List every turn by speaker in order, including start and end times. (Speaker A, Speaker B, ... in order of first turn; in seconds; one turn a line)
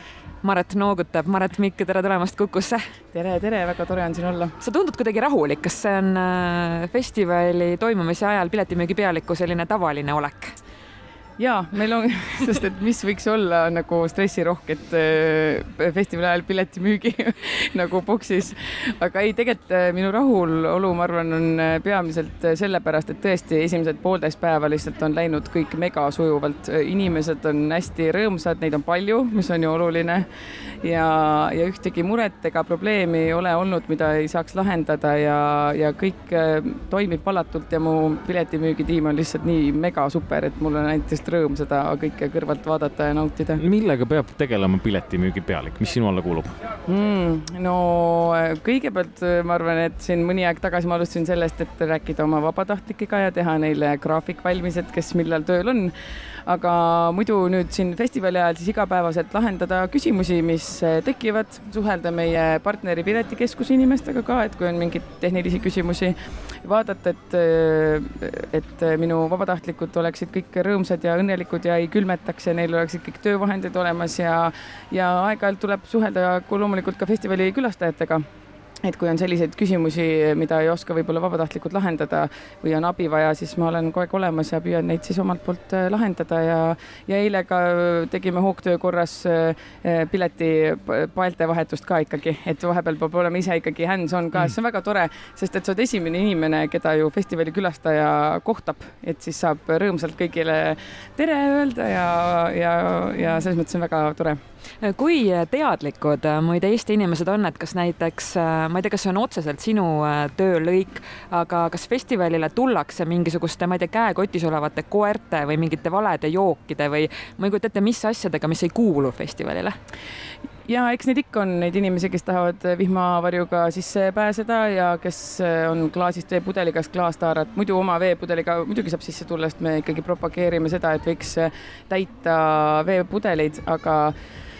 Speaker A: 0.4-2.8
Speaker B: 3.1-4.5
Speaker A: 4.6-10.6
Speaker B: 11.4-30.3
Speaker B: 30.8-43.6
Speaker C: 43.6-46.5
Speaker B: 46.9-78.2
Speaker B: 78.8-104.4
Speaker A: 104.8-119.8
Speaker B: 120.7-134.1